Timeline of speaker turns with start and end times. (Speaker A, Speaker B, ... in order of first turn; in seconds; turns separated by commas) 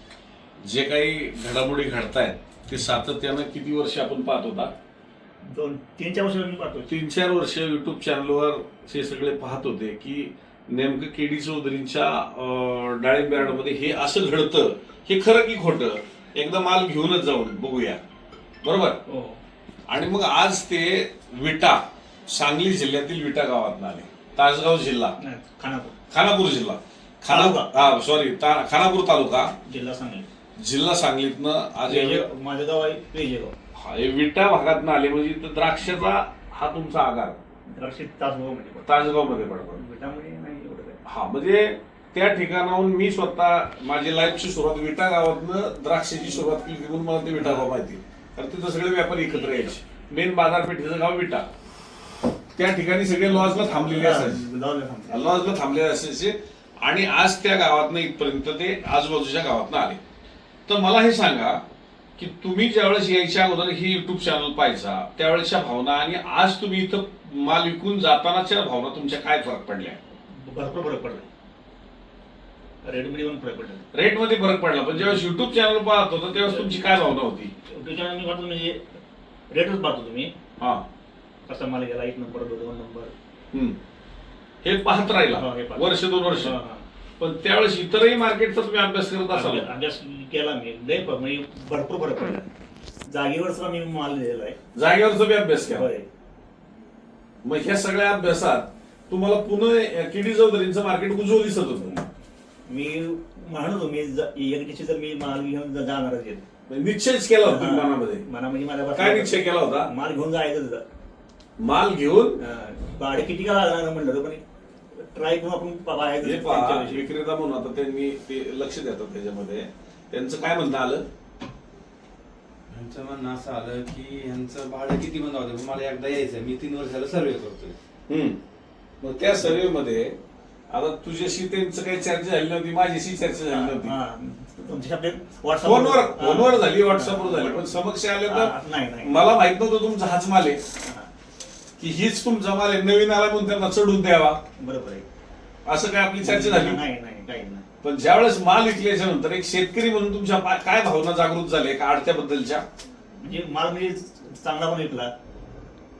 Speaker A: 0.6-4.7, Speaker B: 5.5-6.9, Speaker A: 6.9-18.0, Speaker A: 18.6-19.0, Speaker B: 19.1-19.4, Speaker A: 19.9-25.1, Speaker B: 25.2-25.9, Speaker A: 26.1-29.5, Speaker B: 27.3-28.0, Speaker B: 29.6-30.3, Speaker A: 30.6-32.2, Speaker B: 31.9-33.5, Speaker A: 33.8-37.4, Speaker B: 37.7-41.0, Speaker A: 38.8-39.8, Speaker A: 41.0-51.5, Speaker B: 47.4-47.7, Speaker A: 52.5-54.4, Speaker B: 53.2-55.3, Speaker A: 55.1-60.0, Speaker A: 60.7-61.6, Speaker A: 62.2-70.0, Speaker B: 70.3-71.2, Speaker B: 72.8-73.9, Speaker A: 73.9-77.5, Speaker B: 76.4-76.8, Speaker B: 77.7-78.8, Speaker B: 79.5-80.3, Speaker A: 80.6-80.8, Speaker B: 81.5-83.1, Speaker A: 84.6-86.5, Speaker B: 85.3-86.8, Speaker A: 87.2-89.7, Speaker B: 89.3-92.5, Speaker B: 93.1-94.6, Speaker A: 94.7-95.9, Speaker B: 95.7-96.1, Speaker A: 97.4-102.0, Speaker B: 102.7-106.5, Speaker A: 106.7-108.2, Speaker B: 107.4-110.8, Speaker A: 108.9-109.9, Speaker A: 111.6-112.4, Speaker B: 112.4-114.4, Speaker B: 115.0-117.0, Speaker A: 116.2-121.0, Speaker C: 122.7-127.8, Speaker A: 128.1-128.4, Speaker A: 129.0-130.1, Speaker A: 130.7-133.9, Speaker B: 133.5-139.2, Speaker A: 135.6-140.6, Speaker B: 140.8-141.1, Speaker A: 141.8-144.4, Speaker B: 144.6-145.1, Speaker A: 145.7-146.8, Speaker B: 146.2-147.6, Speaker A: 147.8-152.6, Speaker B: 153.2-155.1